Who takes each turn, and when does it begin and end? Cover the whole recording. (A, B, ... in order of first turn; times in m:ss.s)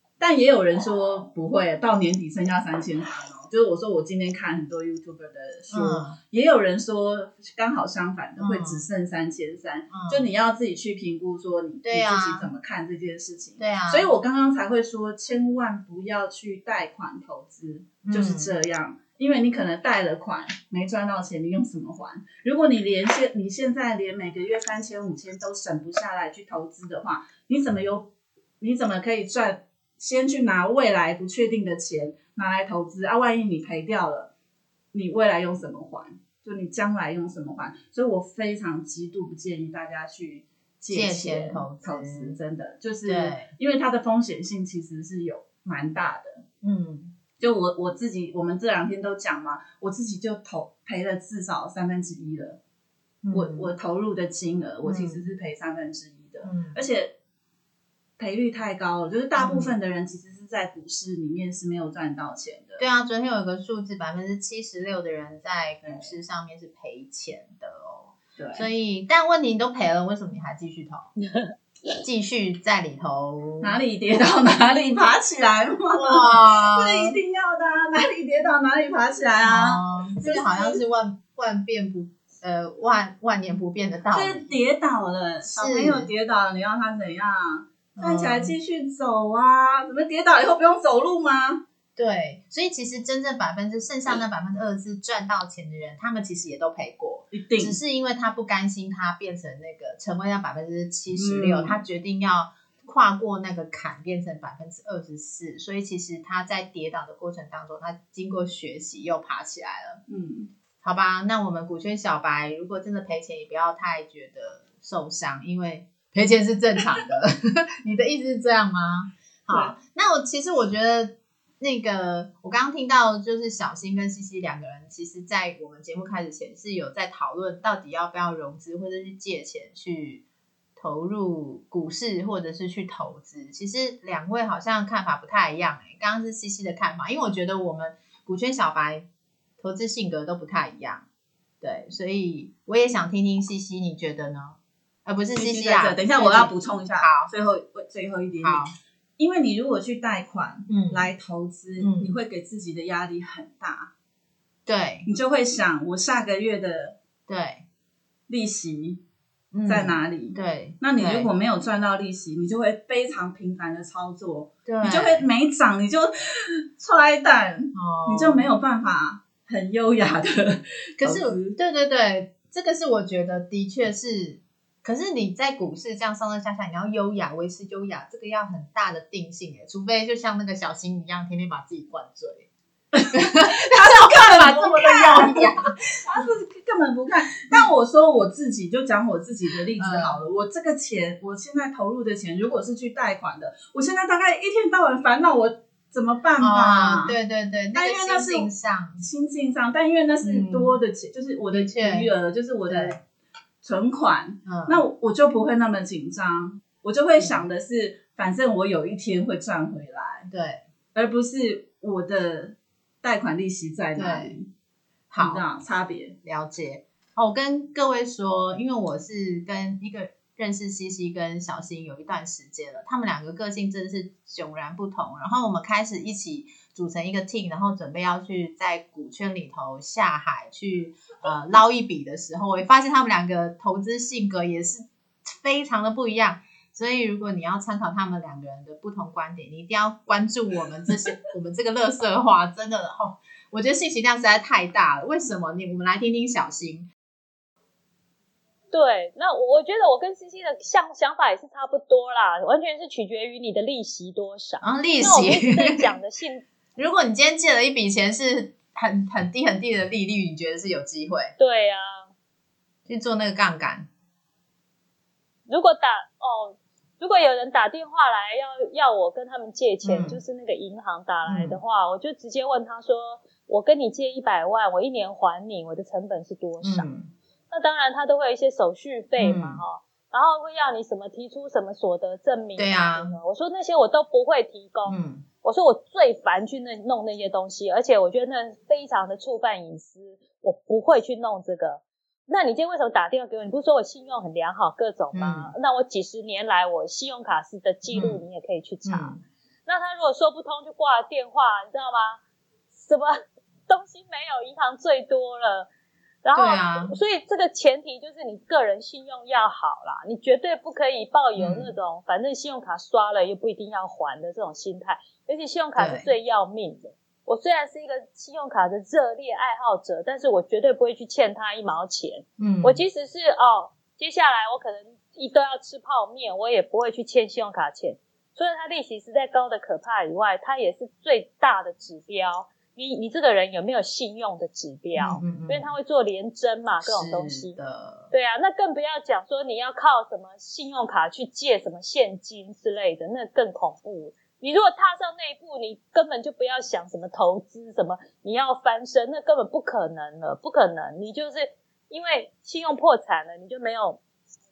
0:00.2-0:28.1 A
0:05.7-0:06.2 B
0:08.4-0:08.8 B
0:09.9-0:10.2 B
0:11.8-0:12.5 B
0:13.6-0:14.2 B
0:18.0-0:18.6 B
0:28.6-0:34.3 A
0:34.9-0:46.4 A
0:40.9-0:42.4 B
0:43.0-0:43.5 B
0:46.6-0:47.1 B
0:47.4-0:52.6 A
0:53.2-0:53.7 B
0:53.3-0:57.1 A
0:54.8-0:55.2 B
0:56.4-0:56.8 B
0:58.2-1:02.8 A
0:59.4-0:59.8 B
1:02.8-1:11.1 B
1:05.8-1:06.1 A
1:08.4-1:08.7 A
1:12.0-1:13.8 B
1:13.6-1:20.8 A
1:15.9-1:17.2 B
1:19.4-1:24.5 B
1:24.1-1:31.6 A
1:25.4-1:26.1 B
1:28.0-1:28.5 B
1:32.0-1:50.0 B
1:37.3-1:37.8 A
1:41.1-1:41.8 A
1:50.1-1:50.5 A
1:50.8-2:10.2 B
2:10.8-2:19.1 B
2:19.6-2:21.0 B
2:21.6-2:27.3 B
2:25.3-2:33.9 A
2:28.4-2:28.7 B
2:30.7-2:31.1 B
2:31.8-2:32.2 B
2:34.6-2:35.1 B
2:35.1-2:37.0 A
2:37.3-2:37.6 B
2:38.3-2:39.0 A
2:39.5-2:41.3 B
2:39.6-2:51.6 A
2:44.7-2:45.2 B
2:47.7-2:48.5 B
2:51.0-3:02.5 B
3:02.9-3:17.2 A
3:03.1-3:06.3 B
3:09.8-3:10.2 B
3:16.4-3:19.0 B
3:17.7-3:23.0 A
3:20.2-3:20.8 B
3:21.5-3:22.1 B
3:22.7-3:23.0 B
3:23.6-3:30.3 A
3:24.4-3:24.8 B
3:27.2-3:27.4 B
3:30.3-3:30.6 B
3:30.9-3:34.5 A
3:34.0-3:34.4 B
3:35.1-3:35.4 B
3:35.2-3:36.2 A
3:36.2-4:06.9 B
4:08.7-4:16.4 C
4:14.6-4:15.9 B
4:16.8-4:21.3 B
4:21.4-4:22.1 C
4:22.9-4:23.9 B
4:25.5-4:36.9 C
4:29.8-4:30.2 B
4:31.2-4:31.6 B
4:36.6-4:37.1 B
4:37.5-5:02.2 C
4:39.2-4:39.6 B
4:42.6-4:43.2 B
4:44.9-4:45.2 B
4:55.1-4:55.5 B
4:57.9-4:58.2 B
4:58.8-4:59.2 B
5:02.7-5:03.1 C
5:03.7-5:05.7 C
5:06.2-5:37.6 C
5:06.3-5:06.9 B
5:11.4-5:11.7 B
5:15.8-5:16.1 B
5:22.4-5:22.8 B
5:35.0-5:35.7 B
5:36.8-5:38.1 B
5:38.1-5:54.0 C